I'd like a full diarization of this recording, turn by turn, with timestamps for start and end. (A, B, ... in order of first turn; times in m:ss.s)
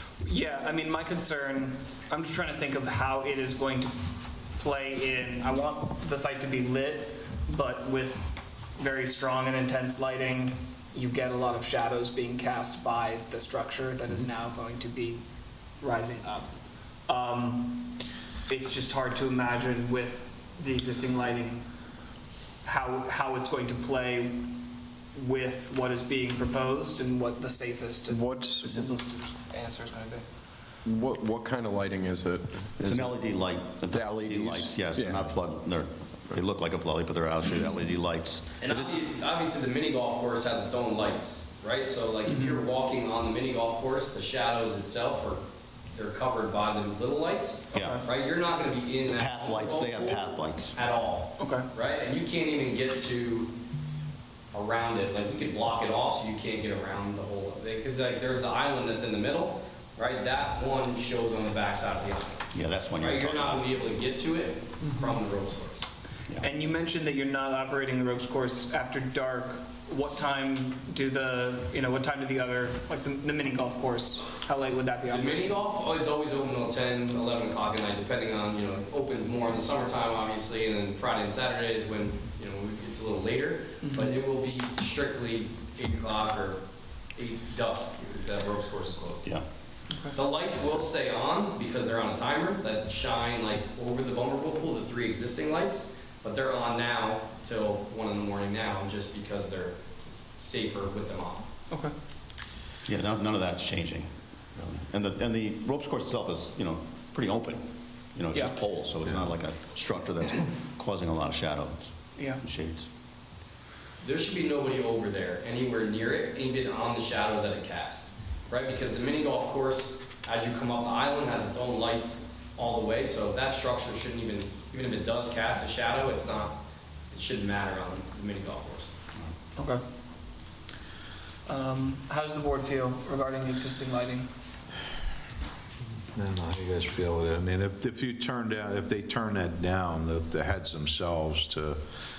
0:00.2-0:15.2 A
0:15.8-0:16.5 A
0:17.1-0:21.6 A
0:22.6-0:30.2 A
0:28.1-0:29.0 B
0:30.8-0:35.4 B
0:32.8-0:38.9 C
0:38.6-0:53.5 D
0:42.3-0:42.6 A
0:47.7-0:48.0 C
0:49.1-0:50.8 C
0:51.4-0:51.7 A
0:54.5-1:02.4 D
1:02.5-1:03.6 C
1:03.0-1:05.9 D
1:06.4-1:15.6 A
1:15.1-1:26.6 D
1:23.8-1:24.2 A
1:27.1-1:29.3 D
1:30.1-1:39.8 D
1:40.3-1:41.5 D
1:42.8-1:47.6 C
1:48.1-1:52.9 C
1:54.0-2:06.6 D
2:07.1-2:08.9 D
2:09.6-2:09.8 A
2:11.4-2:14.3 A
2:16.1-2:21.8 E